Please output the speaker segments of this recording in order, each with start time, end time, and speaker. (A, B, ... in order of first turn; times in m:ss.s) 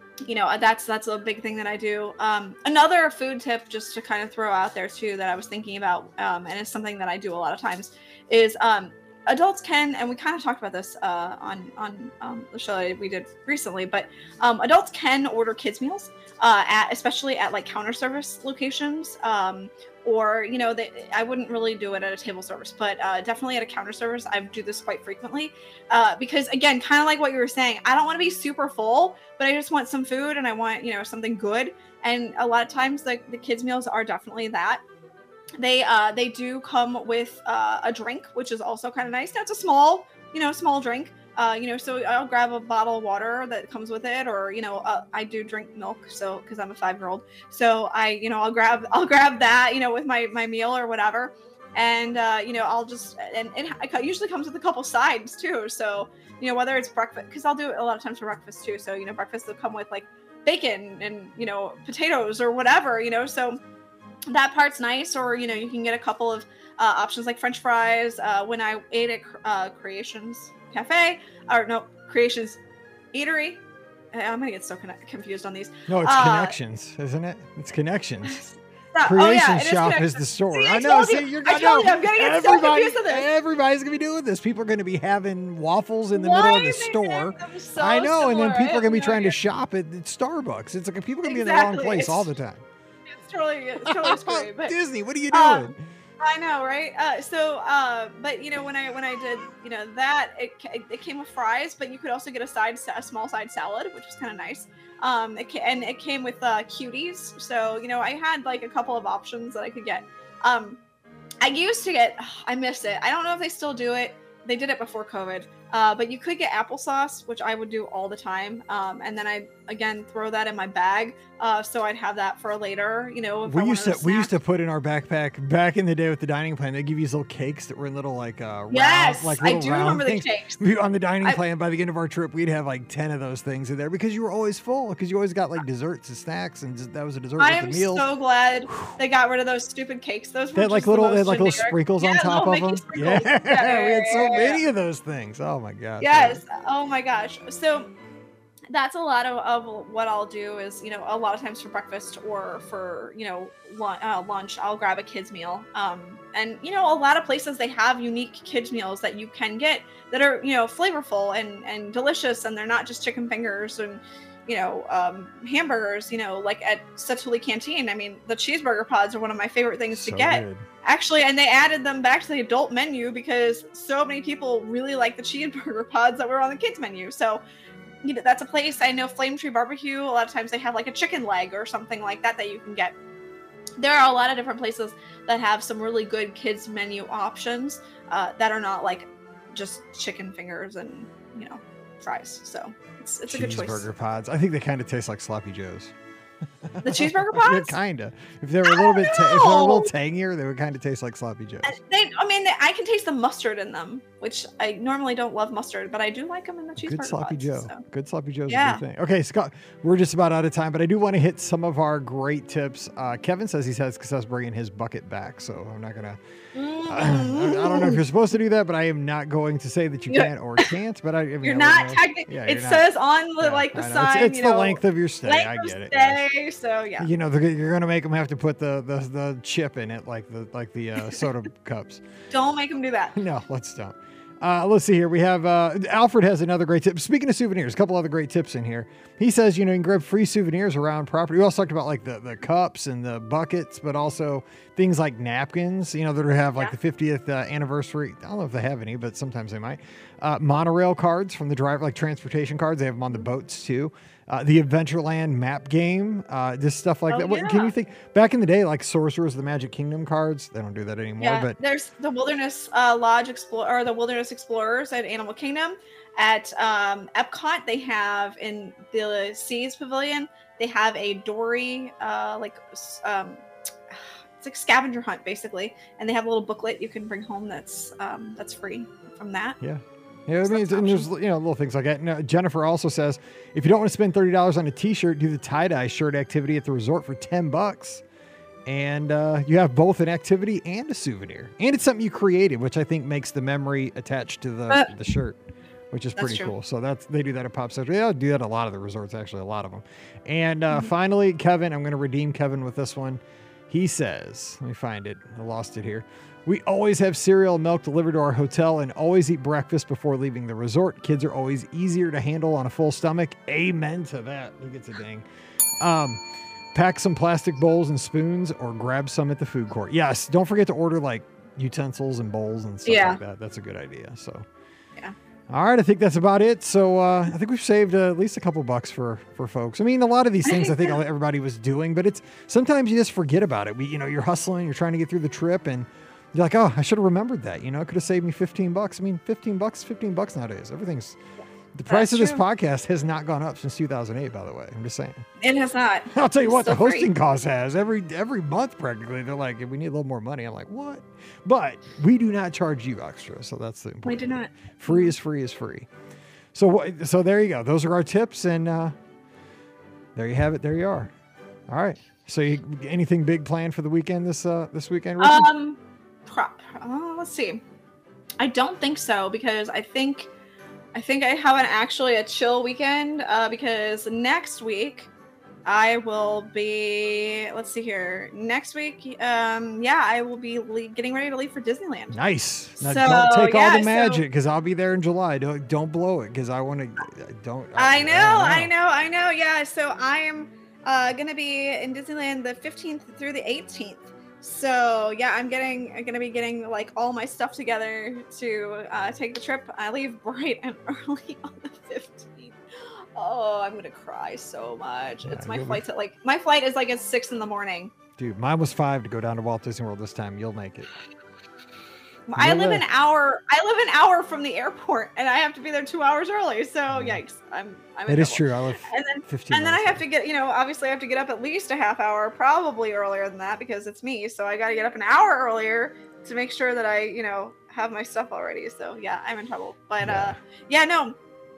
0:00.2-0:34.8 A
0:35.6-1:03.6 A
1:04.3-1:12.6 A
1:13.1-1:16.6 A
1:15.9-1:18.5 B
1:18.3-1:23.3 A
1:19.0-1:32.6 B
1:26.1-1:29.4 A
1:31.2-1:32.3 A
1:33.1-1:34.8 A
1:33.8-1:35.8 B
1:35.3-1:35.7 A
1:36.2-1:50.8 A
1:51.4-2:04.3 A
2:03.4-2:18.1 B
2:08.7-2:10.6 A
2:17.4-2:24.6 A
2:18.7-2:19.0 B
2:20.6-2:26.4 B
2:26.0-2:27.9 A
2:28.7-2:57.4 A
2:49.9-2:50.7 B
2:58.0-3:03.0 A
3:03.8-3:13.9 A
3:13.3-3:15.9 B
3:16.7-3:21.8 B
3:16.8-3:17.8 A
3:18.6-3:19.9 A
3:21.6-3:27.8 A
3:26.8-3:36.2 B
3:28.5-3:28.8 A
3:36.5-3:38.0 A
3:36.8-3:42.9 B
3:40.1-3:40.7 A
3:41.4-3:47.1 A
3:43.4-3:46.2 B
3:47.0-3:52.0 B
3:52.3-3:53.2 A
3:53.2-4:21.6 B
4:17.1-4:17.7 A
4:21.2-4:39.6 A
4:39.6-4:48.0 B
4:40.4-4:41.1 A
4:48.7-4:55.4 B
4:55.9-5:15.2 B
4:56.2-4:56.5 A
5:15.8-5:16.2 B
5:16.7-5:24.4 B
5:22.9-5:23.2 A
5:25.5-5:41.2 B
5:30.5-5:31.0 A
5:41.7-5:45.3 B
5:41.9-5:42.4 A
5:45.4-5:47.1 A
5:46.1-5:55.9 B
5:54.0-5:55.1 A
5:56.5-5:59.0 B
6:00.2-6:01.1 B
6:01.7-6:05.5 B
6:05.2-6:07.6 A
6:08.4-6:10.3 A
6:10.9-6:15.1 A
6:15.6-6:22.2 A
6:22.1-6:28.7 B
6:22.8-6:24.2 A
6:27.8-6:47.9 A
6:45.2-6:45.8 B
6:48.2-6:50.9 B
6:52.3-7:11.2 A
6:52.4-6:52.8 B
6:56.9-6:57.2 B
6:58.1-7:00.0 B
7:10.0-7:10.4 B